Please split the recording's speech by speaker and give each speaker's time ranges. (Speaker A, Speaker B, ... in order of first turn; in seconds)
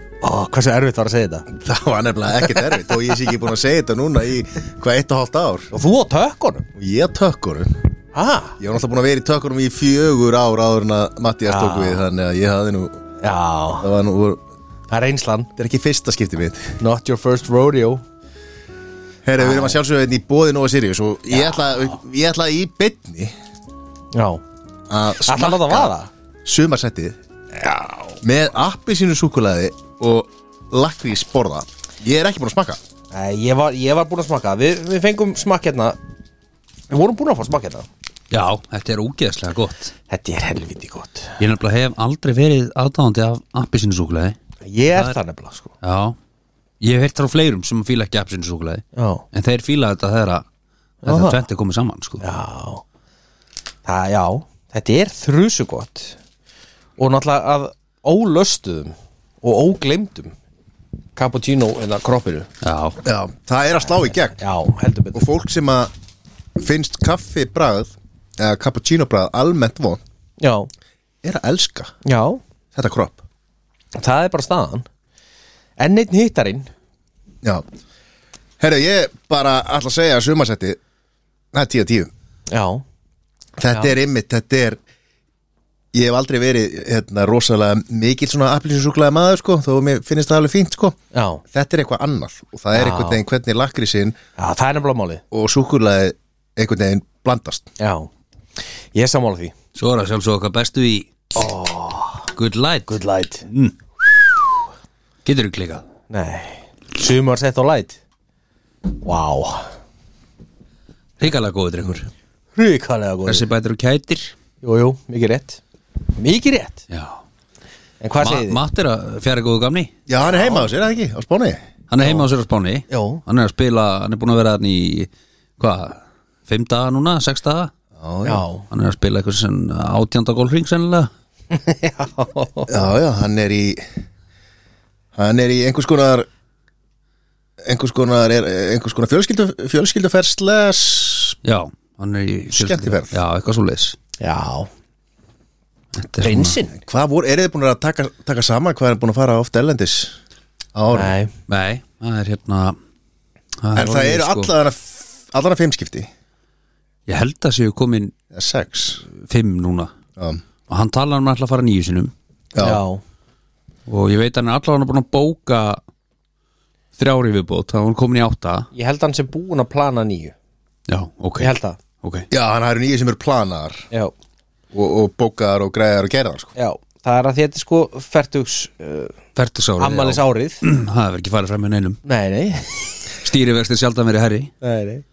Speaker A: 0.2-1.5, 5.7-6.7, 8.1-8.6, 11.4-12.1, 13.2-13.9, 14.9-15.5, 16.8-18.0, 19.4-19.8, 21.3-21.8, 24.1-24.4, 25.2-26.1, 27.6-28.2, 33.1-36.0, 36.9-37.9, 40.1-41.4, 44.6-45.7, 48.9-49.2, 51.0-51.4, 52.2-52.8, 53.9-56.2, 57.0-60.3, 61.1-62.5, 64.1-65.3, 70.4-70.7, 72.0-72.4, 73.9-74.9, 75.8-76.7, 82.5-82.8, 91.1-91.4, 92.7-93.2, 94.4-95.2, 97.8-98.1, 98.9-99.5, 101.3-102.3, 102.9-103.5, 106.1-108.0, 108.9-109.7, 112.5-113.5, 114.6-116.8, 118.0-118.6, 120.2-120.7, 122.0-122.2, 122.9-123.2, 128.2-128.6, 131.5-132.7, 144.2-144.7, 146.2-146.8, 150.9-151.3, 162.6-163.0, 168.7-170.3, 171.4-171.8, 176.6-179.1, 179.8-180.6, 182.0-183.1, 184.6-185.0
Speaker B: 1.5-5.7, 6.8-7.7, 8.6-13.0, 13.8-14.4, 15.6-16.8, 19.2-23.3, 24.9-27.2, 28.2-32.8, 63.0-64.3, 65.1-65.9, 66.6-70.0, 71.2-71.9, 72.7-73.2, 78.6-80.8, 81.5-82.1, 83.6-84.8, 85.9-91.0, 91.5-94.2, 95.3-97.7, 120.1-121.6, 128.0-128.4, 132.7-133.8, 135.2-136.2, 137.6-141.4, 142.5-143.2, 146.7-150.2, 150.7-151.2, 153.7-156.1, 158.3-159.0, 160.2-160.4, 162.5-162.8, 172.3-173.9, 174.7-176.5
Speaker C: 38.3-39.9, 41.4-44.4, 45.8-46.1, 46.8-50.4, 51.0-52.2, 62.6-63.0, 99.7-101.1, 102.3-103.7, 105.2-105.8, 111.2-112.1, 113.2-114.3, 116.9-117.2, 118.2-119.9, 121.9-127.7, 128.7-131.1, 141.4-144.0, 145.9-146.6, 151.5-152.8, 153.6-154.5, 157.1-158.1, 159.1-159.9, 160.7-162.1, 163.9-165.8, 166.9-168.7, 170.9-171.5, 172.0-172.3, 179.3-182.0, 183.2-184.5